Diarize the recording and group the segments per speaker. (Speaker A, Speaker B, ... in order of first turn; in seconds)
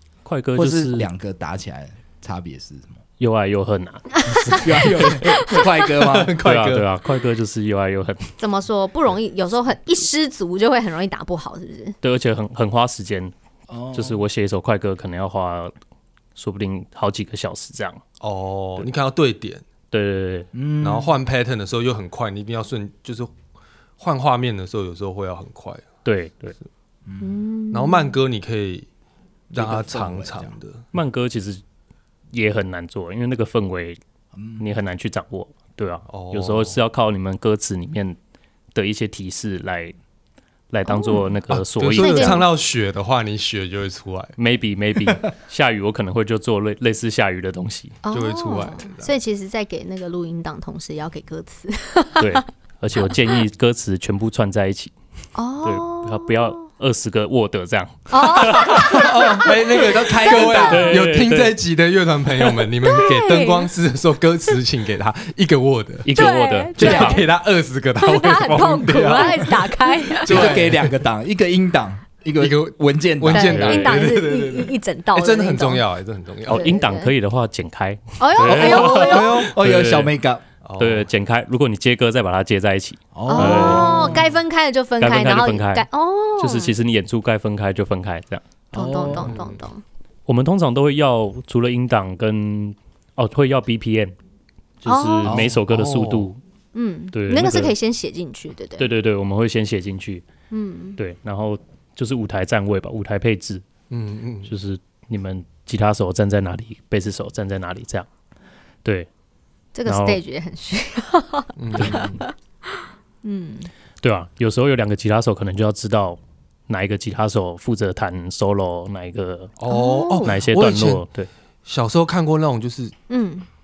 Speaker A: 0.2-1.1, 3.2-5.0, 6.4-8.3, 12.0-13.3, 13.9-15.7, 16.4-18.0, 19.9-20.5, 26.0-26.6, 30.9-31.6, 32.3-34.0, 34.6-38.2, 38.7-40.0, 40.7-42.4, 44.4-48.0, 52.2-54.9, 55.6-59.0, 60.6-61.5, 66.0-67.2, 73.5-74.0, 76.5-80.1, 80.8-84.2, 85.0-85.8, 86.4-88.4, 90.3-94.1, 94.8-96.4, 97.1-97.7, 98.8-100.2, 101.0-103.6, 104.4-108.1, 108.8-109.1, 109.8-110.2, 111.8-112.2, 114.0-119.5, 120.2-121.3
Speaker B: 0.6-3.0, 4.5-6.3, 13.7-14.2, 20.5-21.1, 27.1-27.4, 29.5-30.6, 34.3-34.6, 58.9-61.0, 66.8-67.1, 70.2-73.7, 78.4-80.4, 83.1-84.3, 88.7-89.4
Speaker C: 4.3-5.7, 8.4-11.9, 27.2-28.1, 40.9-41.3, 42.0-42.5, 48.0-52.4, 55.3-56.5, 58.1-60.9, 62.6-63.7, 66.1-67.2, 68.0-70.6, 73.3-75.8, 76.5-77.1, 78.2-79.5, 83.2-86.8, 88.7-89.8, 94.8-95.4, 96.7-98.9, 100.5-101.0, 109.7-113.7, 119.7-120.3, 123.1-123.5
Speaker D: 5.8-6.8, 18.2-19.6, 20.8-23.3, 24.0-25.8, 27.7-28.9, 29.5-30.9, 36.1-36.8, 41.5-44.3, 48.1-49.1, 58.4-71.0, 72.4-76.7, 80.6-81.1, 89.1-89.5, 95.3-96.3, 103.9-104.5, 111.6-112.2, 119.6-121.0, 121.7-122.9